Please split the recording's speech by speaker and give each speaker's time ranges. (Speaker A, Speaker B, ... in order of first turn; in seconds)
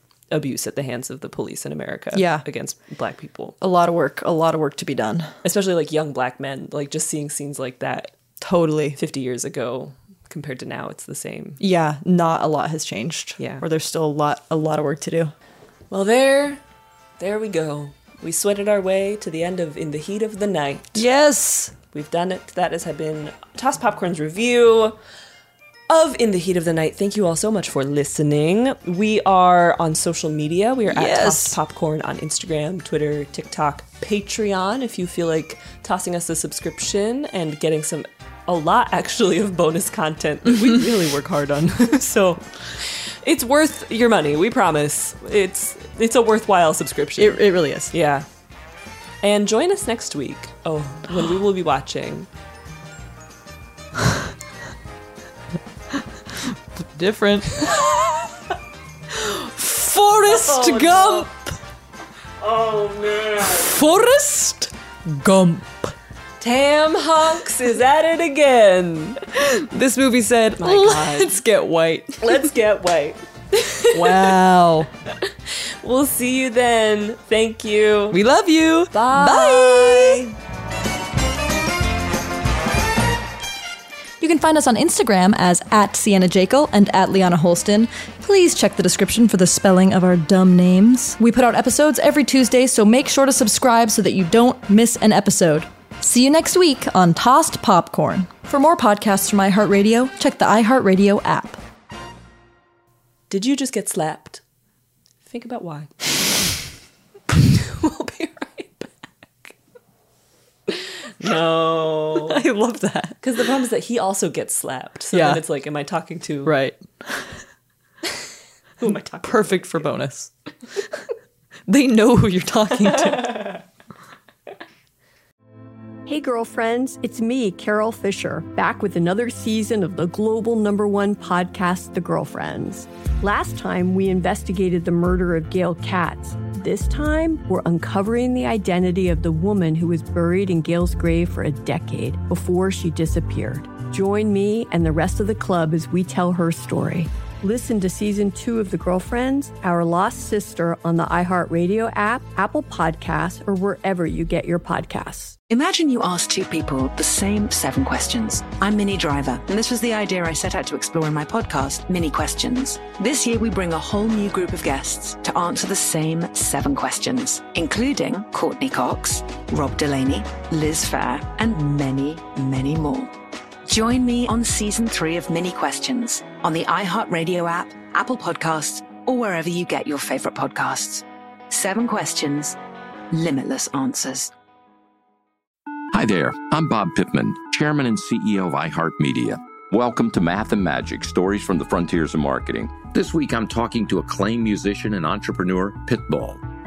Speaker A: 0.3-3.6, 5.4-8.1, 8.9-11.6, 13.4-13.6, 15.9-16.6, 17.2-21.0, 21.9-24.9, 25.9-48.2, 49.2-52.3, 57.6-58.3, 60.3-61.3, 62.4-63.7, 66.4-69.2, 70.6-71.4, 72.2-74.4, 75.2-78.2, 78.9-80.3, 103.3-104.4, 105.2-106.1, 107.3-108.9, 111.2-112.4, 113.2-116.5, 118.8-119.9, 123.0-123.6
Speaker B: 2.1-2.4, 3.6-5.3, 8.4-9.0, 11.6-15.3, 20.9-21.7, 30.9-31.6, 47.2-47.9, 56.9-57.8, 59.1-61.3, 63.5-65.9, 69.3-72.3, 73.9-74.9, 78.1-80.2, 84.2-101.6, 112.3-113.2, 115.1-115.4, 116.4-117.2, 119.2-120.3, 121.7-123.6
Speaker C: 126.0-155.3
Speaker D: 155.5-173.1, 173.7-182.6, 183.1-184.3
Speaker E: 185.9-196.4